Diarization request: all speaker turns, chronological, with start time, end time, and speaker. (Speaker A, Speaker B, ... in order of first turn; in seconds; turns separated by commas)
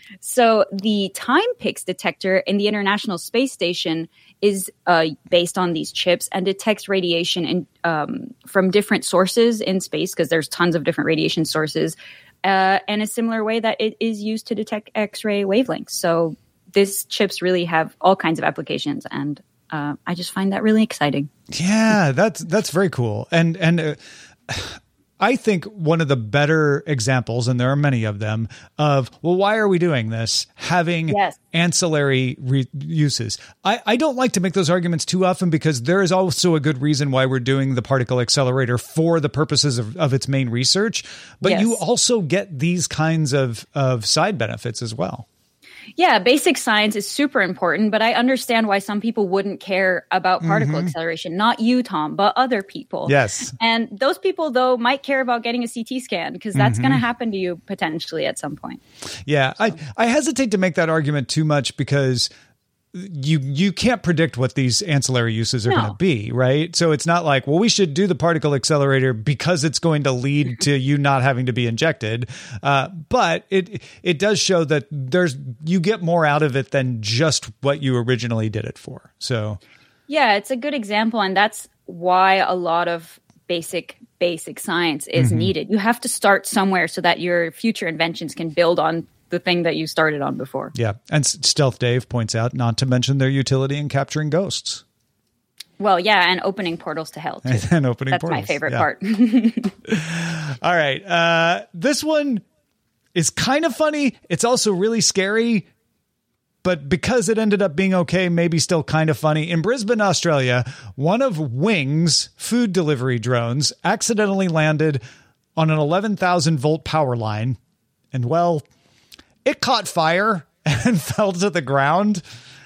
Speaker A: 0.2-21.3, Speaker B: 21.5-45.3, Speaker A: 31.1-31.4, Speaker A: 41.4-41.8, Speaker A: 46.0-58.8, Speaker B: 50.4-50.9, Speaker B: 53.1-53.5, Speaker B: 56.5-57.0, Speaker B: 59.3-62.3, Speaker B: 62.9-79.6, Speaker A: 65.7-66.0, Speaker A: 80.1-90.8, Speaker B: 85.2-85.5, Speaker B: 90.8-94.8, Speaker A: 95.8-99.8, Speaker B: 97.4-98.9, Speaker B: 99.8-102.5, Speaker B: 103.1-105.7, Speaker B: 106.6-115.0, Speaker B: 115.6-117.6, Speaker B: 118.1-118.7, Speaker B: 119.5-122.2